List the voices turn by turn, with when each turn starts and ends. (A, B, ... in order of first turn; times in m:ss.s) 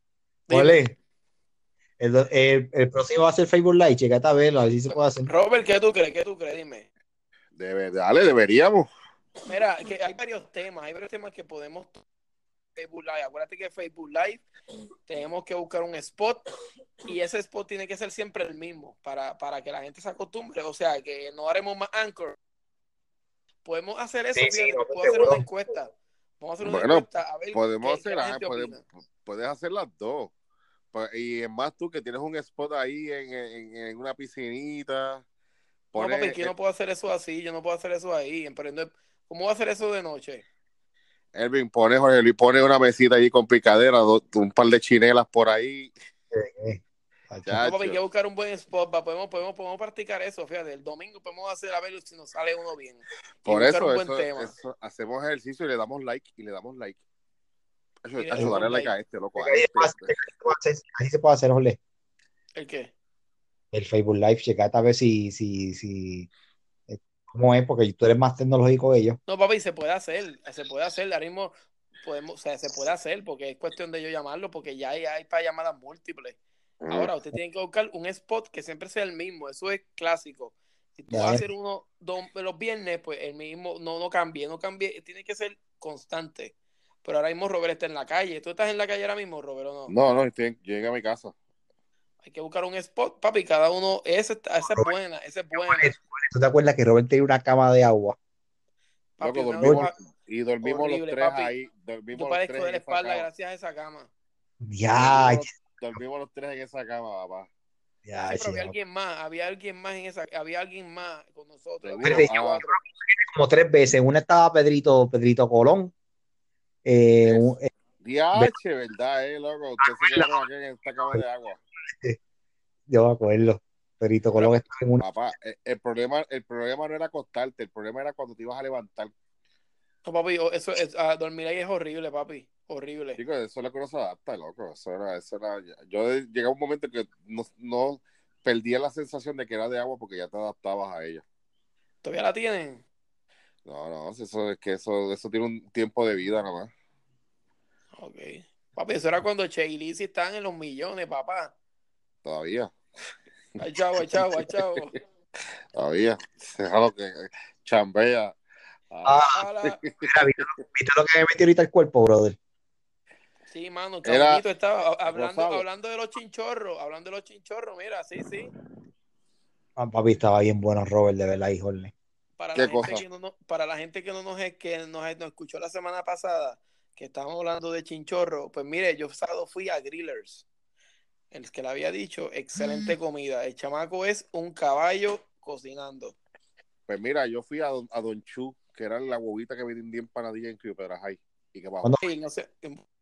0:00.5-0:00.8 A
0:00.5-0:01.0 B
0:02.0-0:05.3 B
0:05.2-0:06.9 A
0:07.6-0:08.9 C
0:09.4-0:12.0 A
0:12.7-0:14.4 A
0:15.1-0:16.5 A
0:17.0-0:22.4 A
0:23.6-0:28.8 A
0:24.3-0:25.4 B
0:26.6-0:30.3 C
0:30.9-0:35.2 C
0:35.9-0:36.5 C
0:36.0-0:40.4 A
0:41.3-0:45.9 C
0:46.3-0:47.7 B
0:47.4-0:48.0 C
0:47.6-0:54.5 A
0:53.4-0:57.0 C
0:58.0-1:00.1 C
0:58.2-0:58.9 A
0:58.4-0:58.6 B
0:59.4-1:01.8 B
1:02.6-1:02.9 A
1:03.7-1:06.3 B
1:06.9-1:09.2 B
1:09.3-1:16.4 A
1:16.8-1:17.1 C
1:16.9-1:29.9 A
1:21.1-1:21.4 B
1:29.9-1:31.3 C
1:32.2-1:35.9 A
1:35.5-1:38.2 B
1:39.2-1:39.9 A
1:39.2-1:43.3 C
1:40.6-1:41.5 A
1:42.1-1:44.1 A
1:44.6-1:45.5 B
1:44.9-1:47.5 C
1:48.0-1:48.7 B
1:48.2-1:52.8 A
1:51.8-1:52.6 C
1:52.0-1:55.9 B
1:56.8-1:57.7 B
1:57.2-1:57.5 C
1:58.0-2:01.6 C
1:59.8-2:00.4 B
2:01.9-2:02.2 B
2:02.9-2:05.0 B
2:04.4-2:09.1 C
2:10.0-2:13.2 A
2:13.2-2:21.2 C
2:22.0-2:22.8 A
2:23.6-2:26.7 C
2:28.0-2:31.5 A
2:32.2-2:32.7 C
2:33.6-2:34.9 A
2:35.7-2:38.4 C
2:38.9-2:40.4 C
2:39.0-2:39.4 B
2:39.3-2:39.8 A
2:40.0-2:42.4 B
2:43.5-2:48.5 A
2:44.0-2:44.4 C
2:45.1-2:45.6 C
2:49.8-2:51.9 B
2:52.4-3:00.4 A
2:52.5-2:53.0 C
3:01.3-3:06.2 A
3:06.9-3:11.9 C
3:12.0-3:12.8 A